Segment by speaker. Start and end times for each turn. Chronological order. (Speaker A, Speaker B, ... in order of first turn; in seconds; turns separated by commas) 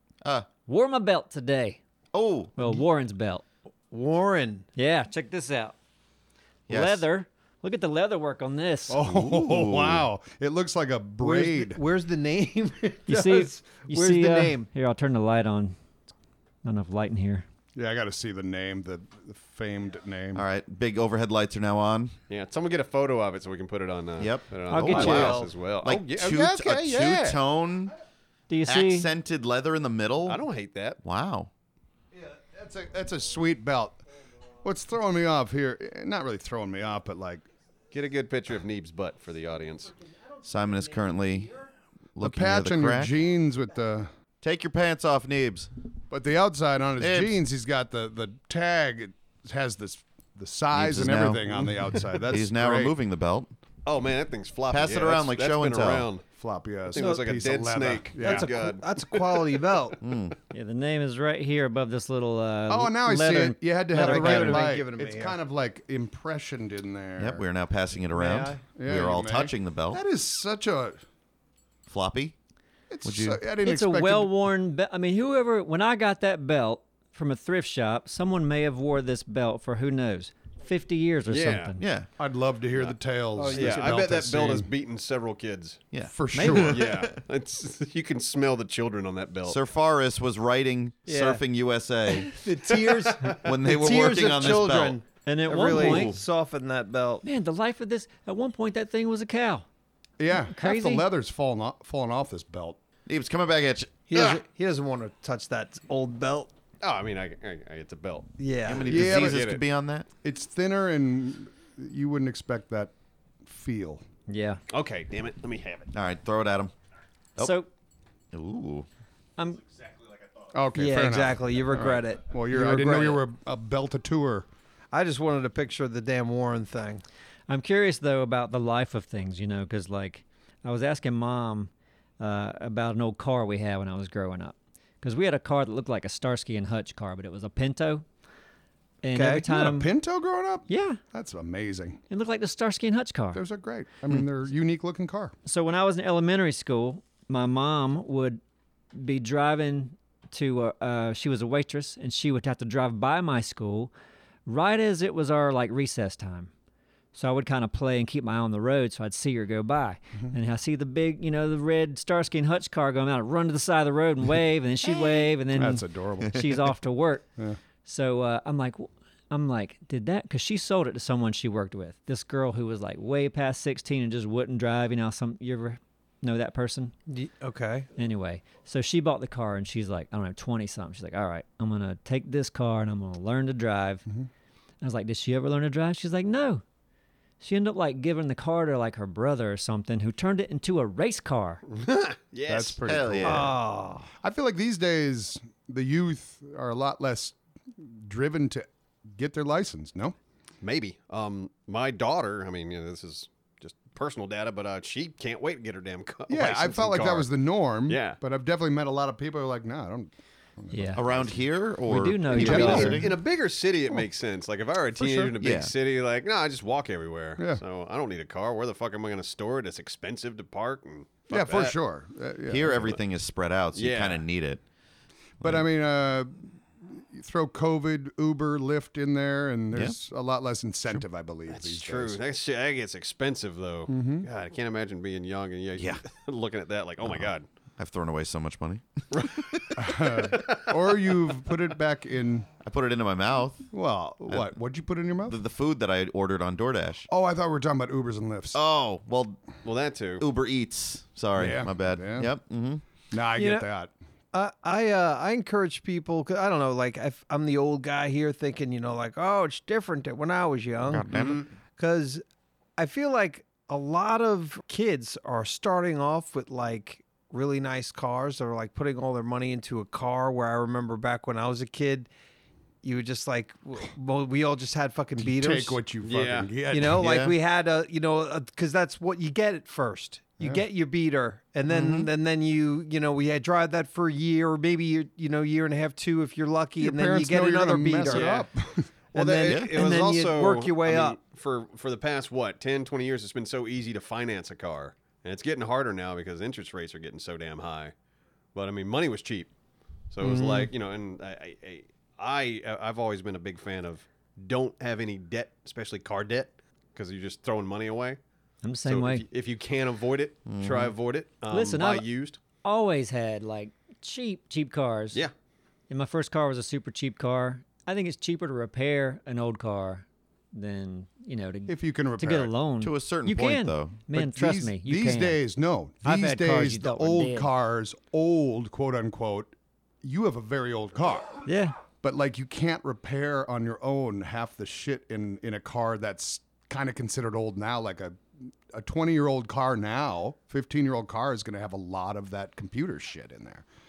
Speaker A: 0.2-0.5, Speaker B: 0.7-1.8, Speaker A: 2.1-2.5, Speaker B: 2.6-3.4, Speaker C: 3.9-4.7, Speaker B: 4.8-5.8, Speaker A: 6.7-7.0, Speaker B: 6.7-9.0, Speaker D: 8.9-11.8, Speaker A: 9.0-10.1, Speaker C: 11.2-14.7, Speaker B: 13.1-15.8, Speaker B: 16.6-17.4, Speaker D: 17.8-20.5, Speaker A: 20.3-22.2, Speaker E: 22.3-27.4, Speaker A: 24.2-27.9, Speaker B: 24.7-25.4, Speaker C: 24.9-25.5, Speaker B: 28.5-29.1, Speaker A: 28.6-30.4, Speaker E: 30.3-31.0, Speaker A: 31.0-31.5, Speaker D: 32.1-34.0, Speaker D: 34.6-37.5, Speaker E: 37.9-40.0, Speaker A: 40.4-43.1, Speaker D: 42.2-44.1, Speaker A: 44.4-45.7, Speaker D: 46.1-53.0, Speaker A: 47.0-47.4, Speaker A: 50.7-53.5, Speaker E: 53.9-56.2, Speaker A: 54.7-56.1, Speaker D: 56.3-58.5, Speaker E: 56.9-59.5, Speaker C: 57.0-57.2, Speaker C: 58.2-60.0, Speaker A: 60.0-60.4, Speaker B: 60.5-64.8, Speaker D: 62.7-67.4, Speaker C: 63.9-65.4, Speaker A: 67.2-70.0, Speaker C: 68.1-68.6, Speaker D: 68.6-71.0, Speaker A: 71.9-72.3, Speaker D: 72.9-74.3, Speaker A: 73.0-73.4, Speaker B: 73.6-81.8, Speaker E: 81.3-81.8, Speaker A: 81.8-82.1, Speaker D: 82.2-84.7, Speaker C: 83.4-84.0, Speaker E: 83.5-85.8, Speaker A: 85.9-87.2, Speaker D: 86.0-87.0, Speaker E: 86.5-89.6, Speaker A: 89.5-92.5, Speaker C: 91.1-91.4, Speaker C: 92.1-97.2, Speaker E: 93.1-93.4, Speaker A: 93.3-95.0, Speaker B: 95.2-96.2, Speaker A: 95.7-96.2, Speaker B: 97.2-99.7, Speaker D: 100.2-102.8, Speaker B: 100.5-101.0, Speaker A: 103.1-104.4, Speaker C: 104.1-106.5, Speaker E: 106.8-109.6, Speaker C: 108.4-109.0, Speaker A: 108.7-110.1, Speaker D: 108.9-109.5, Speaker D: 110.2-114.0, Speaker B: 114.3-114.6, Speaker E: 114.7-115.9, Speaker A: 115.9-116.7, Speaker B: 117.4-117.7, Speaker A: 118.3-118.9, Speaker B: 119.4-119.6, Speaker D: 120.5-124.5, Speaker C: 120.8-123.2, Speaker C: 124.9-127.0, Speaker B: 127.5-138.1, Speaker B: 139.0-139.9, Speaker C: 139.1-139.5, Speaker D: 139.4-142.0, Speaker B: 140.7-141.0, Speaker B: 142.1-143.4, Speaker D: 143.3-145.3, Speaker B: 145.5-148.4, Speaker B: 148.9-153.9, Speaker B: 154.5-156.5, Speaker B: 157.1-167.3, Speaker D: 165.5-166.7, Speaker B: 167.8-176.9, Speaker C: 177.1-177.9, Speaker B: 178.0-184.1, Speaker B: 184.8-186.6, Speaker B: 187.4-191.6, Speaker E: 191.7-192.8, Speaker D: 192.5-193.6, Speaker A: 192.9-193.5, Speaker C: 193.2-194.1, Speaker D: 194.2-200.2, Speaker E: 200.6-207.3, Speaker D: 206.3-211.4, Speaker E: 207.9-208.2, Speaker B: 210.7-211.1, Speaker A: 210.9-213.2, Speaker B: 211.8-213.1, Speaker D: 212.3-213.1, Speaker E: 212.5-221.8, Speaker D: 214.9-215.3, Speaker A: 215.4-215.7, Speaker D: 221.3-222.9, Speaker A: 222.5-224.6, Speaker E: 223.7-224.2, Speaker D: 225.4-232.2, Speaker E: 231.5-237.5, Speaker D: 233.9-234.3, Speaker A: 237.0-239.7, Speaker E: 239.1-241.2, Speaker D: 239.8-242.5, Speaker A: 242.6-243.7, Speaker D: 243.7-245.4, Speaker A: 244.3-244.5, Speaker A: 245.3-247.1, Speaker D: 247.1-248.6, Speaker A: 248.5-249.6, Speaker E: 249.6-250.2, Speaker A: 250.2-252.8, Speaker D: 251.4-252.3, Speaker D: 253.1-253.9, Speaker C: 253.4-253.7, Speaker C: 254.3-262.2, Speaker A: 260.9-261.5, Speaker C: 262.8-272.1, Speaker C: 272.8-275.8, Speaker D: 275.2-277.1, Speaker E: 276.0-276.5, Speaker C: 276.7-288.3, Speaker A: 276.9-277.4, Speaker A: 281.7-282.1, Speaker D: 286.8-288.9, Speaker E: 288.1-288.5, Speaker C: 289.1-291.2, Speaker E: 289.1-297.9, Speaker A: 289.5-289.8, Speaker E: 298.5-299.5, Speaker E: 300.1-308.2, Speaker C: 300.2-300.7, Speaker B: 308.6-309.3, Speaker E: 308.8-312.4, Speaker A: 310.5-310.9, Speaker B: 311.5-312.1, Speaker B: 312.6-315.2, Speaker B: 315.9-325.4, Speaker D: 321.7-322.5, Speaker A: 322.8-324.0, Speaker D: 324.1-331.5, Speaker B: 326.1-327.5, Speaker B: 331.5-331.8, Speaker D: 332.0-343.7